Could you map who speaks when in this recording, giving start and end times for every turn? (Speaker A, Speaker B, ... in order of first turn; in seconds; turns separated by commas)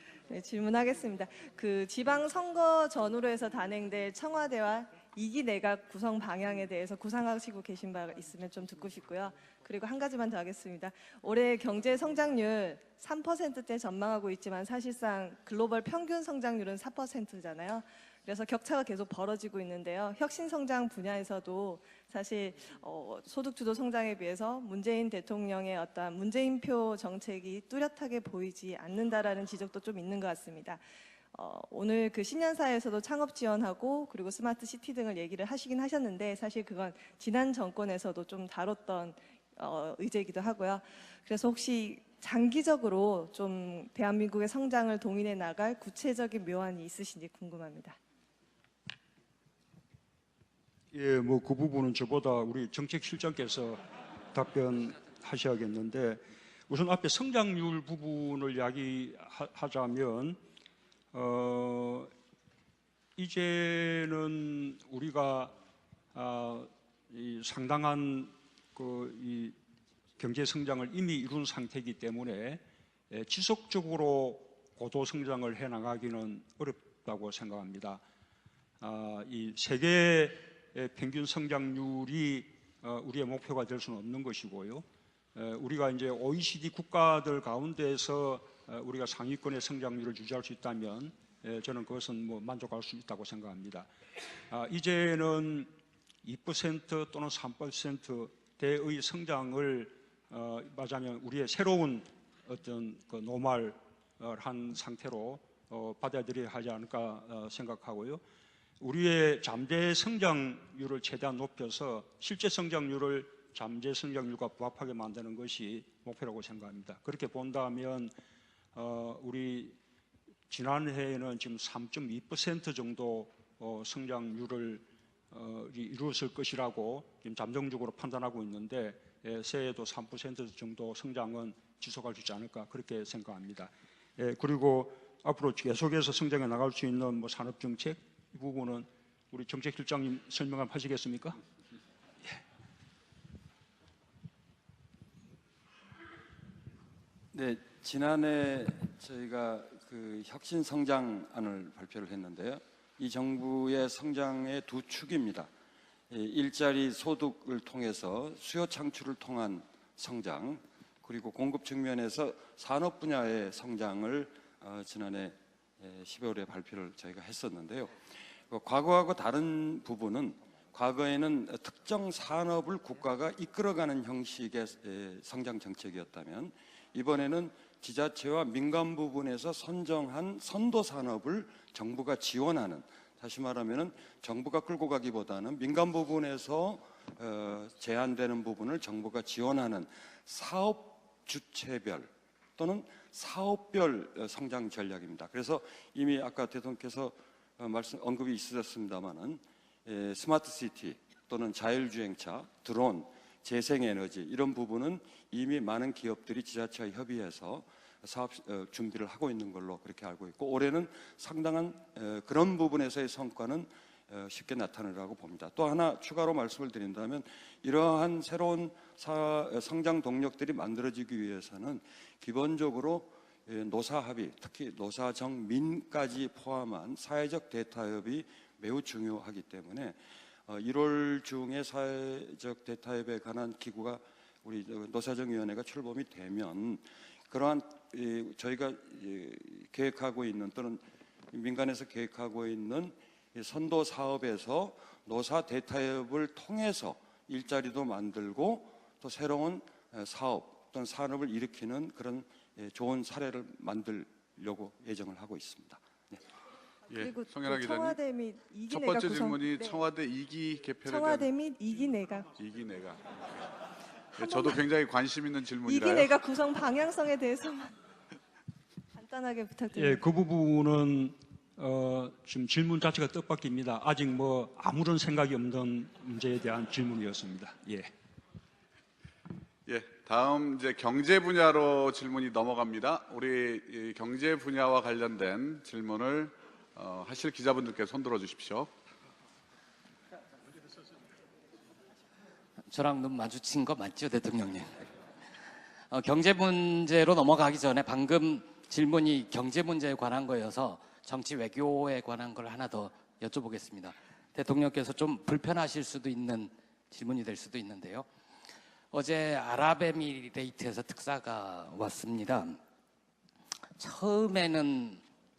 Speaker A: 0.3-48.0, Speaker B: 50.9-60.4, Speaker B: 61.1-62.1, Speaker B: 63.2-65.5, Speaker B: 66.1-69.6, Speaker B: 70.2-78.0, Speaker B: 78.8-93.9, Speaker B: 94.5-95.7, Speaker B: 96.2-108.2, Speaker B: 108.8-118.1, Speaker B: 118.7-119.8, Speaker B: 120.5-141.4, Speaker C: 147.4-155.4, Speaker C: 156.1-165.3, Speaker C: 165.8-167.8, Speaker C: 168.5-176.4, Speaker C: 177.0-186.8, Speaker C: 187.3-192.1, Speaker C: 192.6-197.1, Speaker C: 197.7-199.3, Speaker C: 199.9-213.6, Speaker C: 214.2-229.9, Speaker C: 230.6-236.8, Speaker C: 237.3-240.8, Speaker C: 241.3-242.9, Speaker C: 243.4-255.8, Speaker D: 256.9-258.0, Speaker A: 257.0-259.8, Speaker D: 258.7-261.3, Speaker A: 260.9-262.3, Speaker D: 262.4-263.1, Speaker D: 264.1-266.2, Speaker A: 264.2-264.6, Speaker A: 265.7-267.7, Speaker A: 268.9-270.0, Speaker B: 269.7-277.9, Speaker D: 279.7-288.7, Speaker E: 292.6-294.9, Speaker E: 295.9-308.1, Speaker E: 308.9-312.6, Speaker E: 313.8-315.0